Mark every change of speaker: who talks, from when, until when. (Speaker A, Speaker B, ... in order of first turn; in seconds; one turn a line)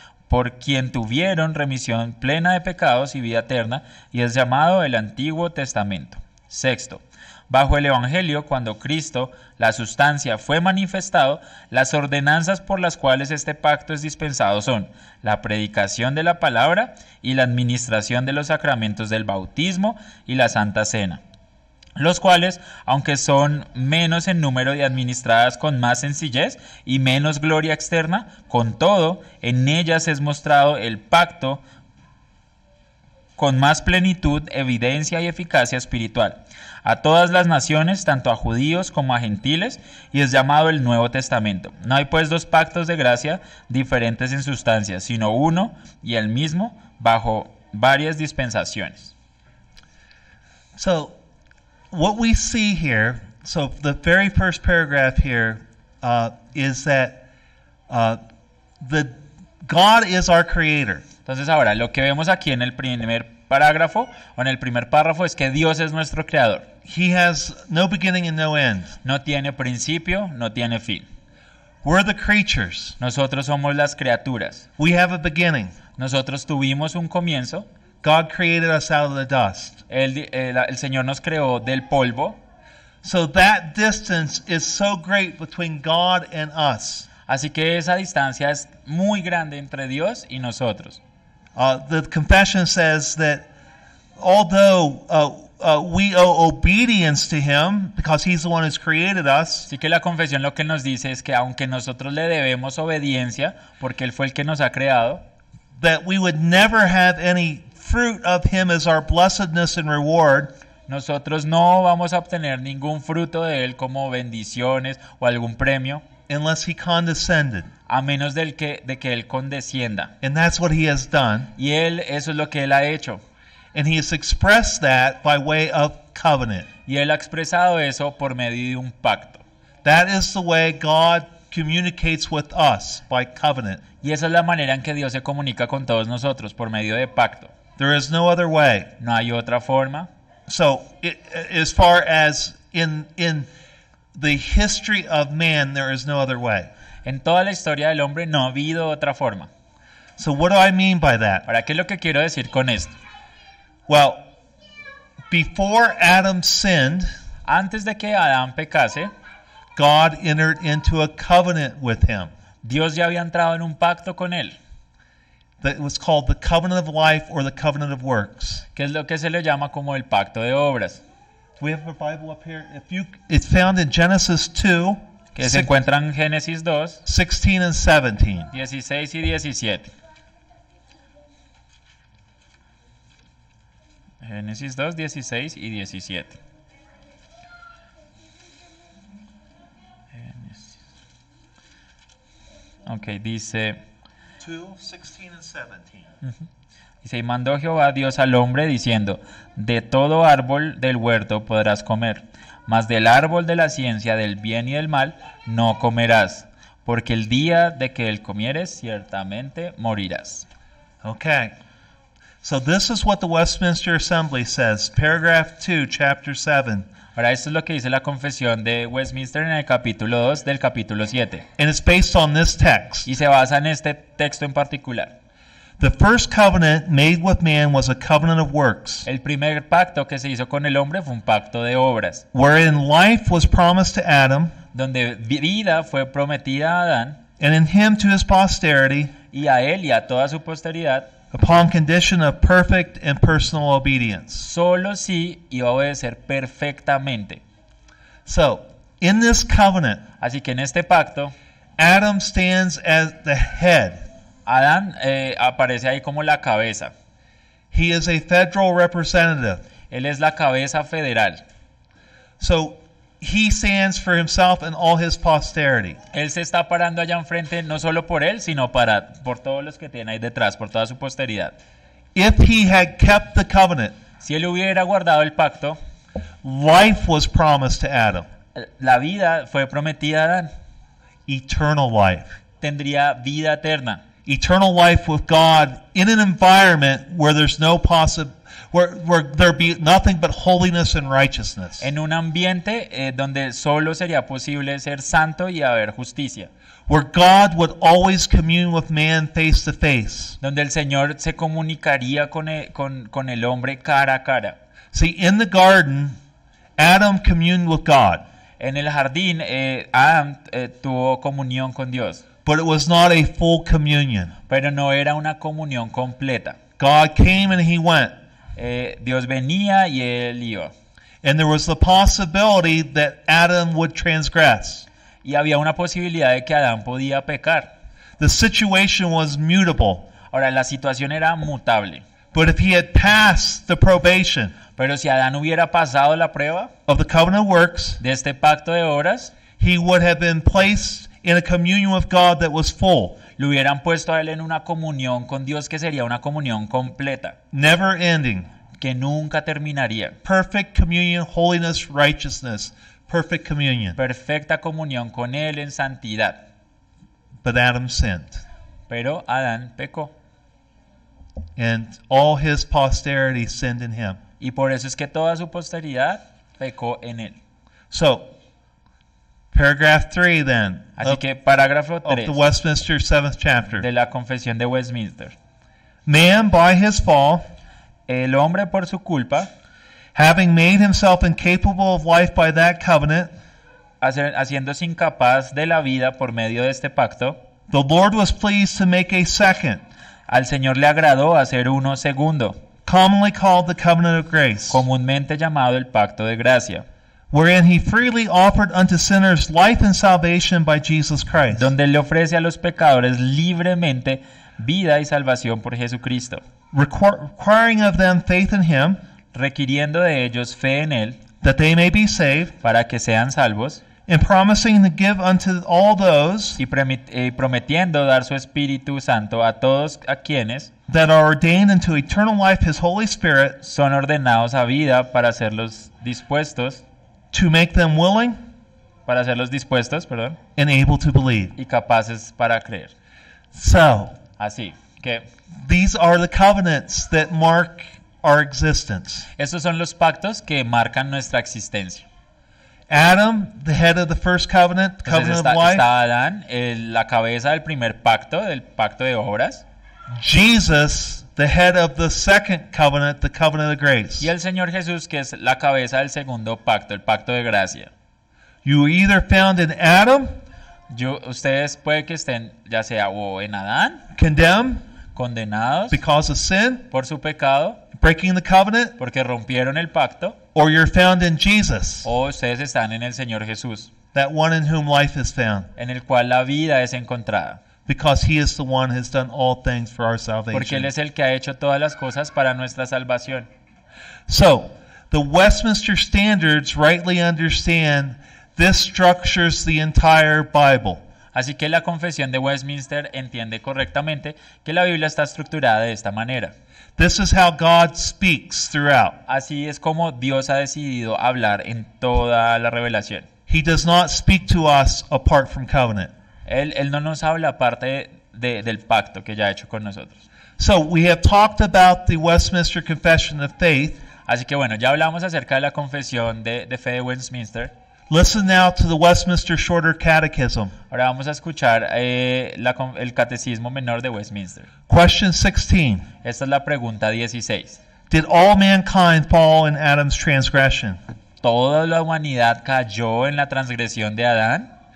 Speaker A: 0.3-21.2
Speaker A: 22.0-31.6
Speaker A: 33.4-49.1
Speaker B: 50.8-51.1
Speaker B: 51.9-57.2
Speaker B: 57.9-58.2
Speaker B: 58.8-61.0
Speaker A: 61.3-66.7
Speaker B: 66.8-68.9
Speaker A: 69.0-71.1
Speaker B: 71.8-73.0
Speaker A: 73.0-74.7
Speaker B: 74.8-75.7
Speaker A: 76.0-77.7
Speaker B: 78.0-79.8
Speaker A: 79.9-82.4
Speaker B: 83.0-87.1
Speaker A: 87.3-91.0
Speaker B: 91.6-93.5
Speaker B: 94.2-99.7
Speaker A: 99.7-105.2
Speaker B: 105.8-110.5
Speaker A: 110.9-116.0
Speaker B: 116.3-117.7
Speaker A: 117.9-120.1
Speaker B: 120.2-121.5
Speaker A: 121.6-123.2
Speaker B: 123.7-126.7
Speaker A: 126.9-129.4
Speaker B: 129.8-133.8
Speaker A: 134.0-137.5
Speaker B: 137.8-138.9
Speaker A: 139.0-140.1
Speaker B: 140.5-143.5
Speaker B: 144.1-146.7
Speaker A: 147.1-149.5
Speaker B: 150.2-151.4
Speaker A: 151.5-152.9
Speaker B: 153.9-154.2
Speaker B: 155.3-157.1
Speaker A: 157.5-159.1
Speaker B: 159.8-162.3
Speaker A: 162.6-164.6
Speaker B: 165.6-168.6
Speaker A: 168.8-171.0
Speaker B: 171.6-175.7
Speaker A: 175.3-177.0
Speaker B: 177.1-178.5
Speaker A: 178.5-179.9
Speaker A: 184.2-186.4
Speaker A: 190.1-190.8
Speaker A: 192.9-193.8
Speaker B: 194.4-196.1
Speaker A: 197.0-210.5
Speaker B: 211.0-211.5
Speaker B: 212.4-216.9
Speaker A: 217.2-221.5
Speaker B: 221.6-223.1
Speaker A: 223.1-225.1
Speaker B: 225.8-229.1
Speaker A: 229.1-232.2
Speaker B: 232.3-234.5
Speaker A: 234.7-237.2
Speaker B: 237.4-239.1
Speaker A: 239.3-241.1
Speaker B: 241.3-244.4
Speaker A: 244.4-247.4
Speaker B: 248.3-250.0
Speaker A: 250.2-251.3
Speaker B: 251.8-254.1
Speaker A: 254.5-256.9
Speaker B: 257.7-259.6
Speaker A: 259.9-261.4
Speaker B: 262.4-266.0
Speaker A: 266.1-271.6
Speaker B: 272.1-273.9
Speaker A: 274.2-275.8
Speaker B: 276.4-278.3
Speaker A: 278.6-280.5
Speaker B: 281.3-282.3
Speaker A: 282.6-284.0
Speaker B: 284.3-291.9
Speaker A: 291.8-296.5
Speaker B: 296.9-300.4
Speaker A: 300.4-304.6
Speaker B: 304.9-306.2
Speaker B: 306.8-308.2
Speaker A: 308.6-312.2
Speaker B: 312.4-314.3
Speaker A: 314.5-316.6
Speaker B: 316.8-318.1
Speaker A: 318.6-320.7
Speaker B: 321.2-324.9
Speaker A: 325.2-327.7
Speaker B: 328.2-330.1
Speaker A: 330.3-332.0
Speaker B: 332.3-334.5
Speaker A: 334.8-336.7
Speaker B: 336.9-338.0
Speaker A: 338.0-339.3
Speaker B: 339.6-343.2
Speaker A: 343.4-347.4
Speaker B: 347.5-348.5
Speaker A: 348.8-350.2
Speaker B: 350.2-354.0
Speaker A: 354.0-356.4
Speaker B: 357.4-358.4
Speaker A: 358.9-360.1
Speaker B: 361.6-364.2
Speaker A: 364.4-367.4
Speaker B: 367.9-368.3
Speaker B: 369.5-371.2
Speaker A: 371.0-372.4
Speaker B: 372.1-373.9
Speaker A: 373.8-375.4
Speaker B: 376.1-377.4
Speaker A: 378.1-379.5
Speaker B: 380.1-383.3
Speaker A: 384.0-387.4
Speaker B: 387.7-389.8
Speaker A: 390.3-392.6
Speaker B: 392.9-394.8
Speaker A: 394.7-396.9
Speaker B: 397.3-401.7
Speaker A: 401.5-406.4
Speaker B: 406.7-409.0
Speaker A: 409.3-411.2
Speaker B: 411.4-412.5
Speaker A: 412.6-413.8
Speaker B: 414.1-416.6
Speaker A: 416.6-420.7
Speaker B: 420.9-423.6
Speaker A: 423.6-426.8
Speaker B: 427.3-428.4
Speaker A: 429.1-430.4
Speaker B: 430.6-431.5
Speaker A: 431.6-432.9
Speaker B: 433.5-434.2
Speaker A: 434.4-435.3
Speaker B: 435.6-439.3
Speaker A: 439.4-442.1
Speaker B: 442.9-445.9
Speaker A: 445.1-449.6
Speaker B: 450.1-454.3
Speaker A: 454.2-457.9
Speaker B: 458.6-460.3
Speaker A: 460.9-464.0
Speaker B: 464.1-464.8
Speaker A: 465.1-466.0
Speaker B: 465.9-466.9
Speaker A: 466.9-467.8
Speaker B: 467.9-468.9
Speaker A: 469.0-470.4
Speaker B: 470.6-472.1
Speaker A: 472.0-473.9
Speaker B: 474.1-475.7
Speaker A: 475.8-477.6
Speaker B: 477.9-480.9
Speaker A: 480.5-483.5
Speaker B: 484.3-491.0
Speaker A: 491.3-496.5
Speaker B: 497.0-499.2
Speaker A: 499.3-503.3
Speaker B: 503.5-506.1
Speaker A: 506.5-510.2
Speaker B: 510.6-514.0
Speaker A: 514.3-517.7
Speaker B: 518.1-520.7
Speaker A: 520.9-524.7
Speaker B: 524.9-526.0
Speaker A: 526.2-527.8
Speaker B: 528.1-531.0
Speaker A: 531.4-534.7